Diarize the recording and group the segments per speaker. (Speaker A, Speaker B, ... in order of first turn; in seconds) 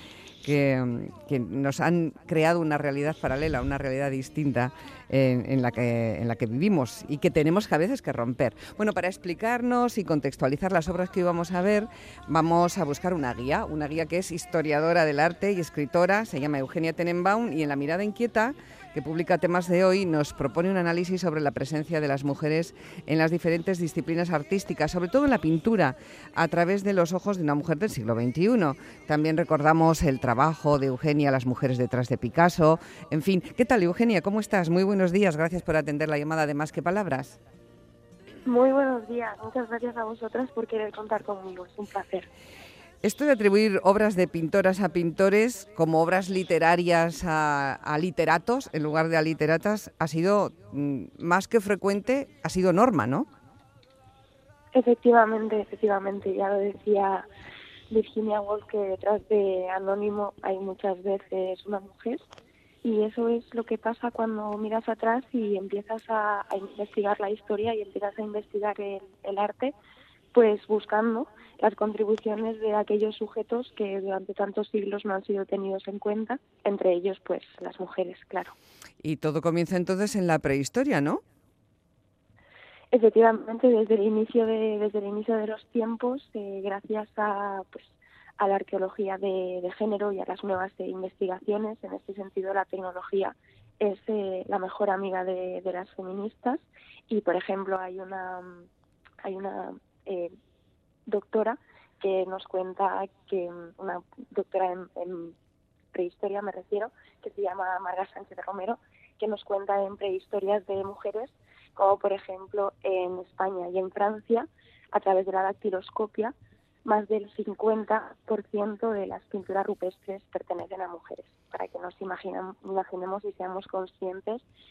Speaker A: 0.4-37.4, 43.0-53.3, 79.0-81.2
Speaker B: 38.4-42.3, 54.7-57.3, 57.9-62.2, 62.8-69.7, 70.3-78.5, 82.9-98.7, 99.2-100.3, 101.1-105.3, 105.9-116.3, 116.8-124.4